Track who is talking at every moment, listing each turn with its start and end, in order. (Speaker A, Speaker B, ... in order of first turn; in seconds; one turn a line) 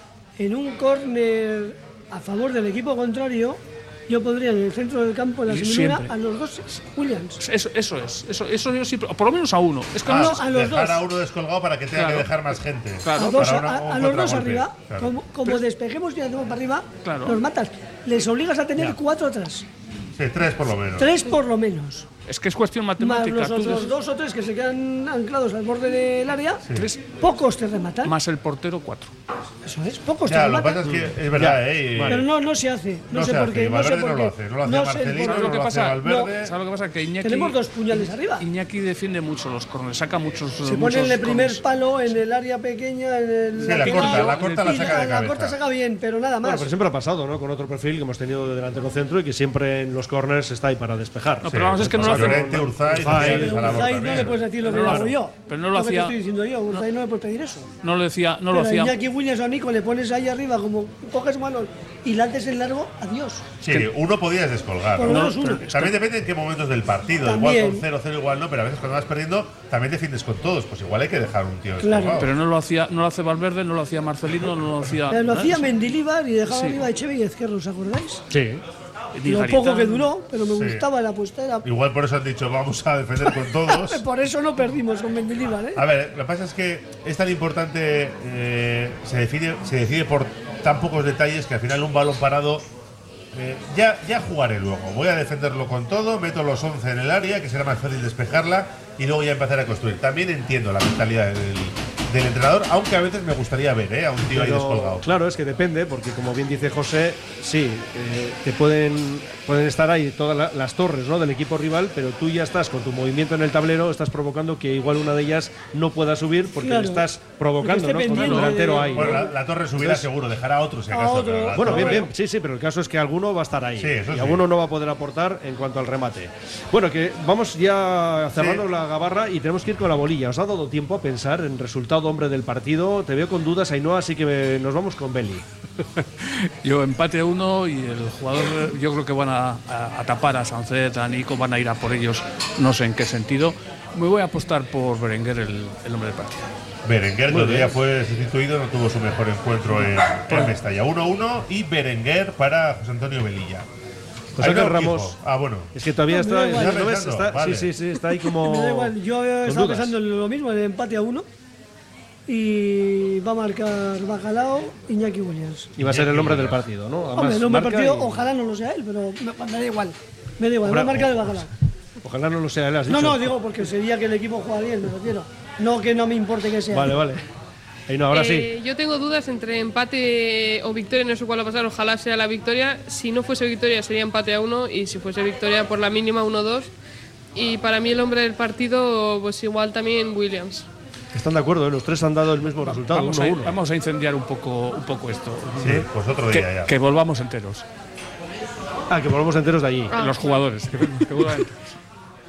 Speaker A: 0.4-7.4
Speaker B: 5.5-6.1
Speaker B: 7.4-10.5
Speaker C: 10.1-15.2
Speaker A: 10.1-11.1
Speaker B: 11.9-12.3
Speaker B: 13.0-13.5
Speaker A: 13.2-19.7
Speaker B: 17.0-17.4
Speaker C: 20.2-21.1
Speaker A: 21.0-22.1
Speaker B: 22.3-24.0
Speaker A: 23.0-28.1
Speaker B: 26.7-27.2
Speaker B: 28.0-29.1
Speaker A: 29.6-30.9
Speaker C: 30.2-32.3
Speaker D: 30.9-32.3
Speaker A: 32.1-36.3
Speaker C: 33.1-36.5
Speaker B: 35.2-41.6
Speaker A: 37.2-38.5
Speaker A: 40.6-46.7
Speaker C: 43.6-45.6
Speaker B: 43.6-45.1
Speaker D: 46.4-55.2
Speaker B: 51.4-52.7
Speaker C: 51.5-54.5
Speaker A: 53.1-57.7
Speaker B: 54.1-56.2
Speaker B: 57.8-59.0
Speaker A: 58.5-63.5
Speaker C: 63.6-72.3
Speaker A: 65.0-65.7
Speaker B: 65.0-65.9
Speaker A: 67.2-67.8
Speaker A: 71.8-72.2
Speaker B: 72.2-75.7
Speaker A: 75.1-78.2
Speaker B: 76.5-76.9
Speaker D: 78.3-78.6
Speaker B: 79.1-80.1
Speaker A: 79.3-81.7
Speaker C: 80.5-80.9
Speaker C: 81.6-84.0
Speaker A: 83.3-85.8
Speaker C: 85.8-92.7
Speaker C: 93.3-105.1
Speaker D: 104.3-120.1
Speaker A: 116.6-117.1
Speaker A: 117.6-119.3
Speaker B: 118.1-119.0
Speaker C: 118.9-122.1
Speaker A: 120.9-122.1
Speaker D: 121.5-135.4
Speaker C: 123.8-124.5
Speaker C: 128.4-128.6
Speaker B: 136.2-146.5
Speaker C: 146.8-153.7
Speaker D: 147.3-147.7
Speaker B: 149.7-150.6
Speaker D: 154.4-155.2
Speaker C: 154.4-155.7
Speaker D: 155.7-160.0
Speaker A: 156.1-156.9
Speaker C: 156.5-157.7
Speaker A: 158.4-161.3
Speaker A: 162.3-165.7
Speaker D: 165.8-168.2
Speaker C: 165.8-166.6
Speaker A: 167.1-171.5
Speaker D: 170.7-171.5
Speaker D: 172.0-173.4
Speaker A: 172.9-177.1
Speaker D: 176.7-177.2
Speaker D: 177.9-178.5
Speaker E: 178.1-186.7
Speaker E: 187.3-190.7
Speaker D: 191.1-193.6
Speaker B: 192.6-197.7
Speaker C: 195.6-196.7
Speaker D: 198.9-199.9
Speaker E: 199.9-200.5
Speaker B: 199.9-201.7